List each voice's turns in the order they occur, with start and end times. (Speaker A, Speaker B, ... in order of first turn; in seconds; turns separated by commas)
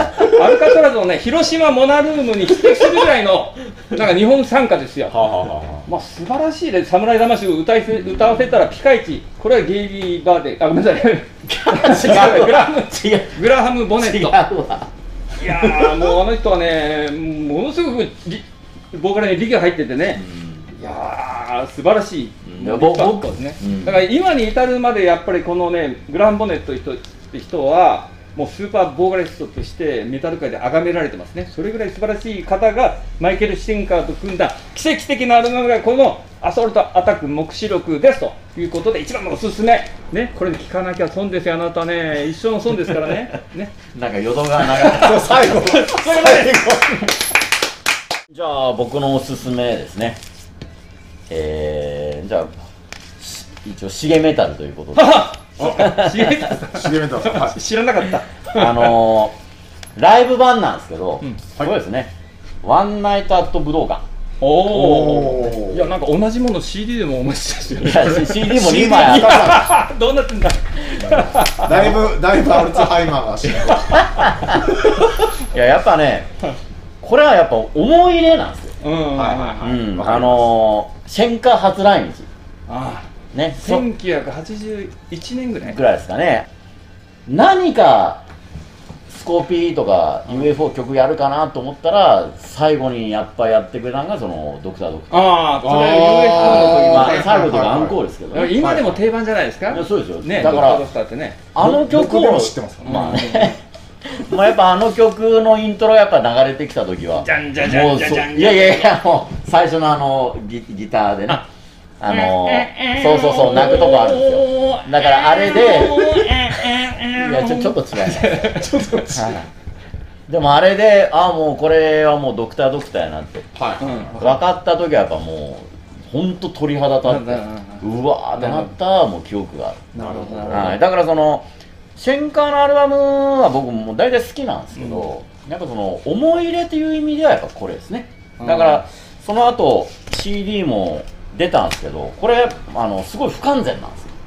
Speaker A: 0.2-5.2, Speaker B: 5.1-5.9, Speaker A: 5.8-14.4, Speaker C: 8.1-8.6, Speaker C: 11.5-14.9, Speaker A: 15.4-43.7, Speaker C: 15.5-16.1, Speaker C: 20.1-20.7, Speaker C: 22.4-24.1, Speaker C: 43.9-45.8, Speaker A: 44.6-46.7, Speaker B: 44.9-47.1, Speaker C: 48.3-50.2, Speaker C: 51.3-52.5, Speaker C: 53.2-56.6, Speaker A: 54.9-59.0, Speaker B: 55.6-55.9, Speaker B: 56.6-57.6, Speaker C: 58.5-59.4, Speaker C: 60.0-64.0, Speaker A: 64.4-72.8, Speaker B: 64.6-65.9, Speaker C: 67.8-69.7, Speaker B: 68.5-69.7, Speaker B: 71.5-74.1, Speaker C: 74.0-74.8, Speaker C: 75.3-76.3, Speaker C: 77.0-78.7, Speaker A: 78.8-79.6, Speaker B: 79.1-80.5, Speaker C: 79.6-82.3, Speaker A: 82.7-85.8, Speaker C: 83.3-83.8, Speaker C: 85.6-86.5, Speaker C: 87.3-88.2, Speaker C: 89.1-95.3, Speaker A: 95.1-97.3, Speaker B: 95.6-98.0, Speaker C: 96.3-98.6, Speaker A: 98.3-101.4, Speaker B: 98.6-99.0, Speaker C: 99.7-100.8, Speaker B: 100.4-100.7, Speaker C: 101.5-111.4, Speaker B: 101.6-103.2, Speaker A: 102.8-103.5, Speaker A: 107.2-108.9, Speaker C: 112.0-116.2, Speaker A: 112.1-119.0, Speaker C: 117.1-118.6, Speaker B: 118.4-119.4, Speaker C: 119.2-119.4, Speaker C: 120.3-123.5, Speaker B: 123.5-124.3, Speaker A: 123.8-124.2, Speaker C: 124.0-144.1, Speaker A: 127.0-128.7, Speaker A: 129.9-130.8, Speaker B: 129.9-130.8, Speaker A: 134.8-135.1, Speaker A: 138.4-138.8